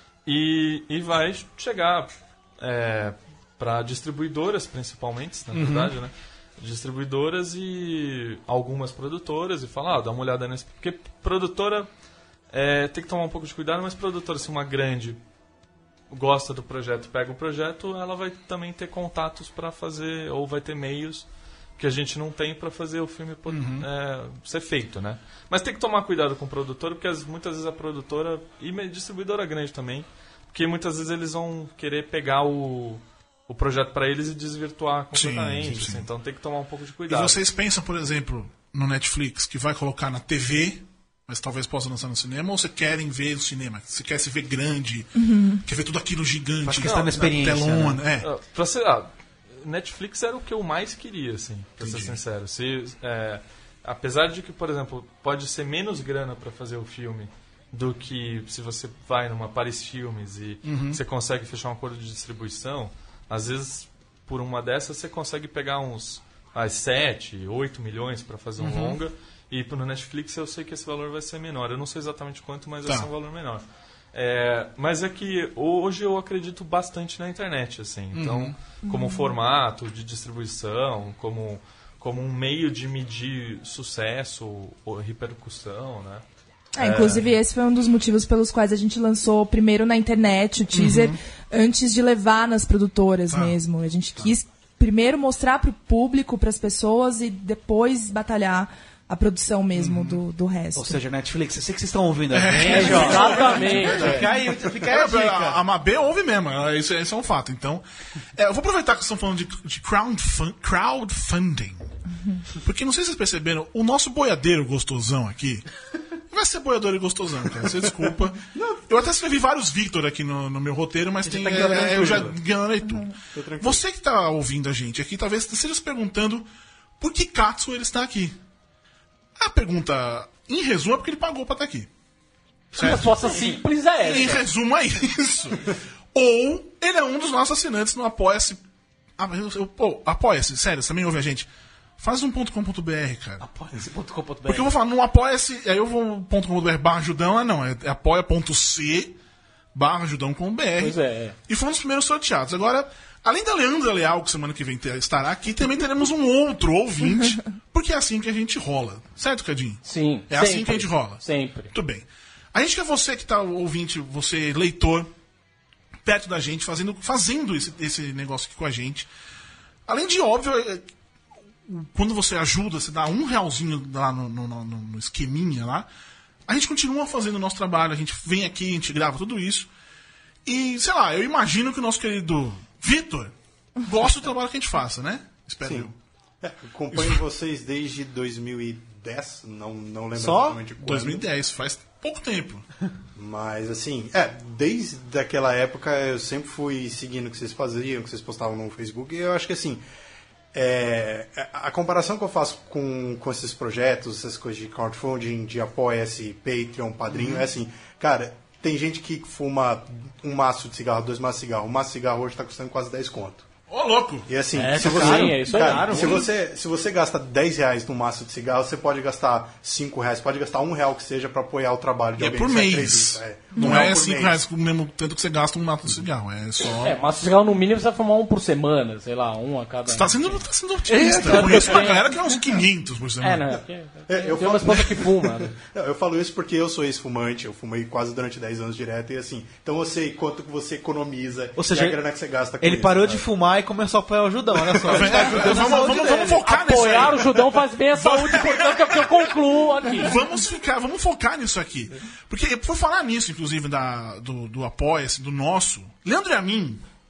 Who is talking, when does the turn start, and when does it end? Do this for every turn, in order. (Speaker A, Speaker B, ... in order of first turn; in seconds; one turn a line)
Speaker A: 0.2-11.9
Speaker B: 5.5-5.9
Speaker A: 12.5-15.2
Speaker A: 16.1-21.2
Speaker A: 21.8-37.4
Speaker B: 23.5-23.9
Speaker B: 35.1-36.1
Speaker B: 37.1-48.3
Speaker C: 45.1-45.6
Speaker D: 46.6-48.0
Speaker A: 46.8-47.1
Speaker A: 48.2-86.2
Speaker B: 51.8-52.2
Speaker B: 60.6-61.0
Speaker B: 68.6-69.0
Speaker B: 78.1-78.5
Speaker C: 78.8-79.3
Speaker C: 86.7-101.0
Speaker B: 86.8-87.2
Speaker A: 87.0-87.2
Speaker B: 90.7-91.2
Speaker B: 93.3-93.6
Speaker B: 99.7-100.2
Speaker D: 100.7-105.6
Speaker B: 102.3-104.2
Speaker E: 102.6-104.3
Speaker B: 104.9-107.8
Speaker B: 108.3-111.9
Speaker B: 112.6-115.7
Speaker B: 116.2-126.5
Speaker F: 118.5-118.8
Speaker D: 121.2-122.3
Speaker F: 123.3-123.8
Speaker B: 127.0-128.4
Speaker B: 129.3-131.9
Speaker E: 132.7-134.4
Speaker B: 132.7-138.6
Speaker B: 139.2-143.4
Speaker D: 143.4-144.7
Speaker B: 144.4-149.2
Speaker B: 149.7-165.1
Speaker E: 150.8-151.3
Speaker E: 159.8-161.7
Speaker B: 166.0-169.1
Speaker B: 169.9-170.9
Speaker B: 171.6-175.9
Speaker B: 176.5-179.7
Speaker B: 180.4-185.9
Speaker F: 185.6-185.9
Speaker F: 186.4-191.2
Speaker B: 186.9-187.2
Speaker D: 190.2-190.7
Speaker B: 190.8-192.6
Speaker F: 193.2-199.8
Speaker F: 200.5-213.5
Speaker B: 213.7-214.3
Speaker F: 214.3-224.4
Speaker E: 214.6-216.2
Speaker D: 214.7-216.2
Speaker B: 222.2-227.0
Speaker C: 223.5-223.8
Speaker E: 226.8-232.1
Speaker B: 229.8-233.6
Speaker E: 233.2-235.5
Speaker F: 234.1-243.2
Speaker D: 241.6-242.0
Speaker D: 242.6-246.5
Speaker F: 244.5-245.2
Speaker B: 244.8-249.4
Speaker E: 246.4-250.2
Speaker B: 249.9-256.8